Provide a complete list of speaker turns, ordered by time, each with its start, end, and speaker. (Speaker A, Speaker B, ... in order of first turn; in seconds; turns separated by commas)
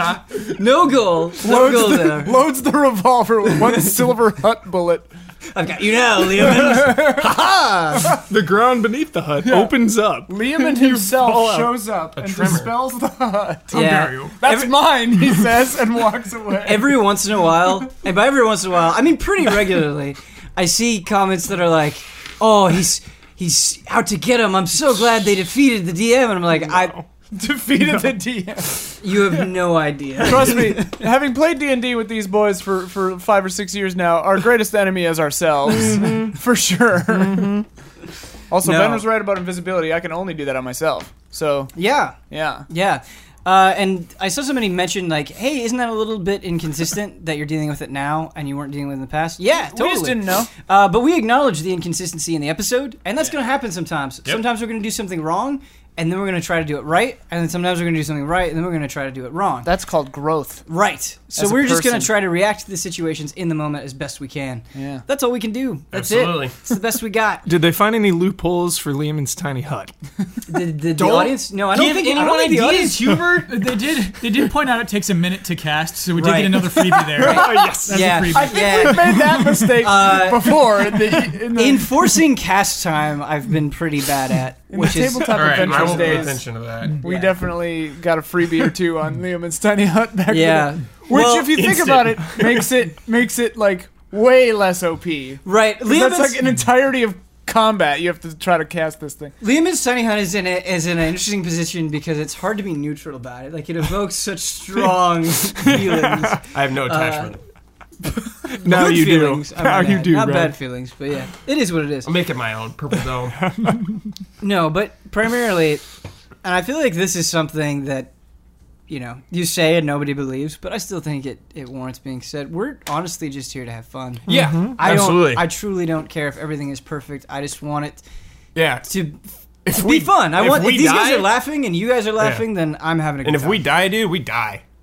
Speaker A: 0.3-2.4, Speaker B: 1.4-5.1, Speaker A: 5.5-8.2, Speaker B: 6.6-7.2, Speaker C: 8.1-11.9, Speaker B: 9.4-9.8, Speaker B: 10.3-17.0, Speaker D: 12.2-12.8, Speaker A: 13.7-14.8, Speaker E: 13.7-14.3, Speaker A: 16.6-27.0, Speaker C: 26.6-27.1, Speaker B: 27.3-29.4, Speaker C: 27.8-28.2, Speaker A: 29.0-30.9, Speaker B: 30.2-37.6, Speaker A: 36.0-36.3, Speaker B: 38.5-41.7, Speaker A: 38.6-39.1, Speaker A: 41.7-59.7, Speaker B: 42.3-42.7, Speaker B: 49.5-50.5, Speaker B: 59.6-60.6, Speaker A: 60.7-67.5, Speaker B: 61.4-62.1, Speaker B: 64.7-65.0, Speaker D: 65.9-66.6, Speaker C: 67.5-69.9, Speaker A: 70.5-73.2, Speaker D: 71.0-73.3, Speaker E: 71.7-79.6, Speaker A: 76.2-80.7, Speaker C: 77.1-78.4, Speaker B: 78.3-82.2, Speaker A: 81.5-86.4, Speaker B: 84.7-86.5, Speaker D: 85.3-87.0, Speaker B: 87.0-99.3, Speaker A: 87.0-87.4, Speaker A: 90.3-92.1, Speaker A: 95.4-96.4, Speaker A: 99.4-107.4, Speaker D: 106.4-107.4, Speaker A: 108.2-112.1, Speaker C: 108.6-110.6, Speaker D: 112.0-113.4, Speaker C: 113.4-113.8, Speaker A: 114.4-115.8, Speaker A: 116.4-118.1, Speaker A: 118.9-128.0, Speaker C: 124.3-124.8, Speaker D: 124.3-125.5, Speaker D: 128.6-128.9, Speaker A: 128.8-133.6, Speaker D: 129.7-131.3, Speaker D: 132.2-132.5, Speaker D: 133.2-134.6